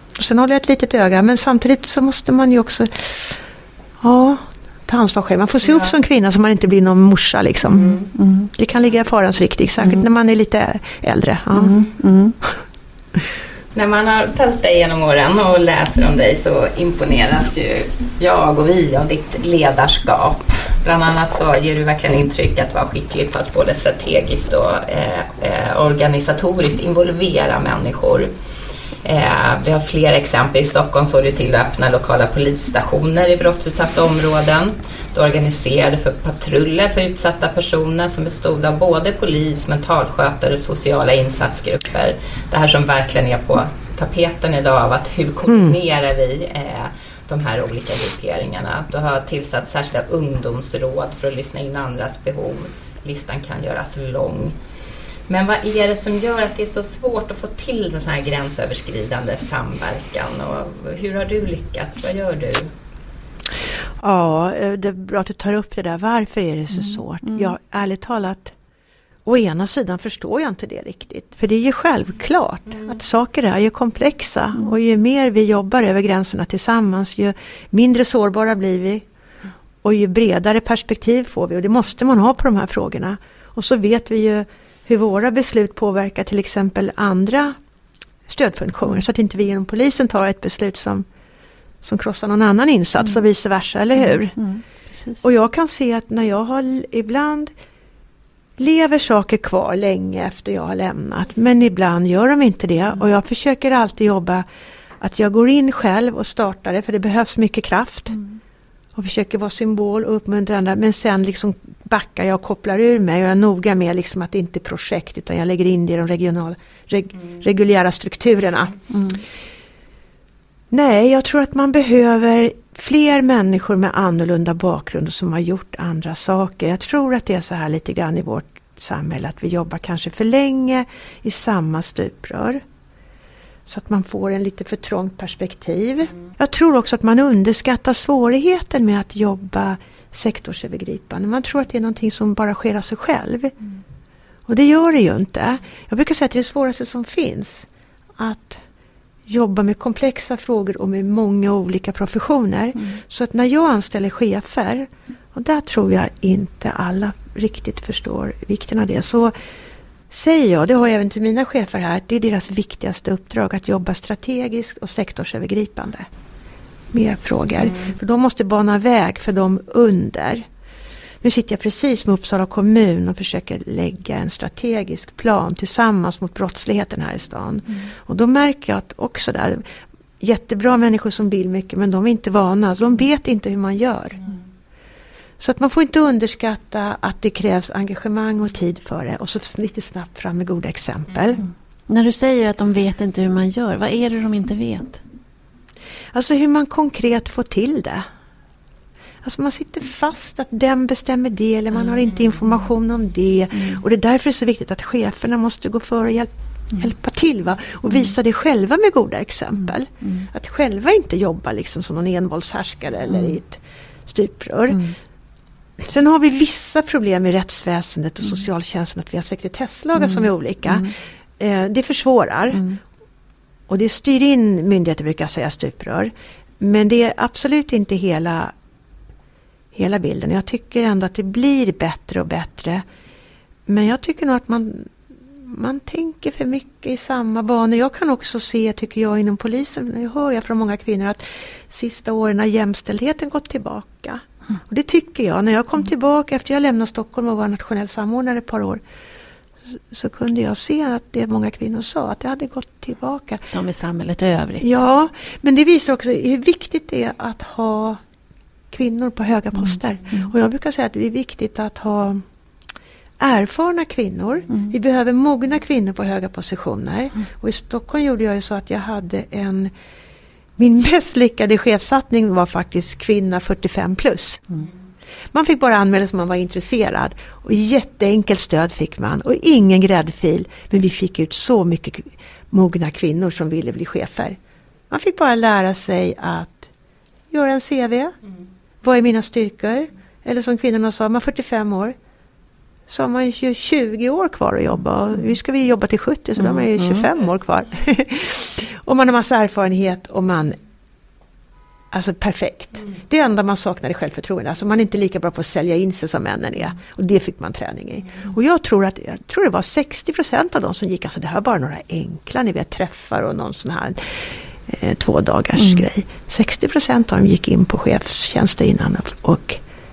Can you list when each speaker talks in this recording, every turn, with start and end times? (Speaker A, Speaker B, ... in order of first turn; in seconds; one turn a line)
Speaker A: 0.2-3.3
Speaker A: 4.0-7.9
Speaker B: 5.6-5.9
Speaker B: 7.7-8.1
Speaker C: 7.8-8.5
Speaker A: 8.6-11.8
Speaker C: 11.5-12.3
Speaker B: 13.8-28.3
Speaker B: 29.0-54.6
Speaker A: 45.5-45.8
Speaker B: 55.3-62.7
Speaker A: 64.0-68.5
Speaker C: 66.7-67.5
Speaker A: 69.3-79.0
Speaker A: 79.8-87.6
Speaker A: 88.3-91.1
Speaker A: 91.8-94.4
Speaker C: 94.0-95.3
Speaker A: 95.2-97.5
Speaker A: 98.6-104.5
Speaker A: 105.0-108.2
Speaker A: 109.0-118.8
Speaker C: 118.9-119.2
Speaker A: 120.7-132.6
Speaker A: 133.7-143.5
Speaker A: 144.5-148.6
Speaker A: 149.3-159.3
Speaker A: 160.1-166.1
Speaker A: 166.9-170.4
Speaker A: 171.2-179.7
Speaker A: 180.2-184.3
Speaker A: 185.4-191.4
Speaker C: 191.4-195.0
Speaker A: 196.1-198.1
Speaker A: 199.2-214.9
Speaker C: 203.5-203.8
Speaker C: 214.7-214.9
Speaker A: 215.8-222.7
Speaker C: 220.0-220.9
Speaker C: 222.5-222.8
Speaker A: 223.7-228.5
Speaker A: 229.7-232.8
Speaker A: 233.7-248.8
Speaker A: 249.9-253.4
Speaker C: 253.4-254.8
Speaker A: 254.6-258.0
Speaker A: 258.7-262.2
Speaker C: 259.6-260.3
Speaker A: 263.2-269.7
Speaker A: 270.6-274.4
Speaker A: 275.3-284.4
Speaker A: 284.9-286.7
Speaker A: 287.3-288.2
Speaker A: 288.8-292.0
Speaker A: 292.9-300.6
Speaker C: 296.4-297.1
Speaker A: 301.9-319.6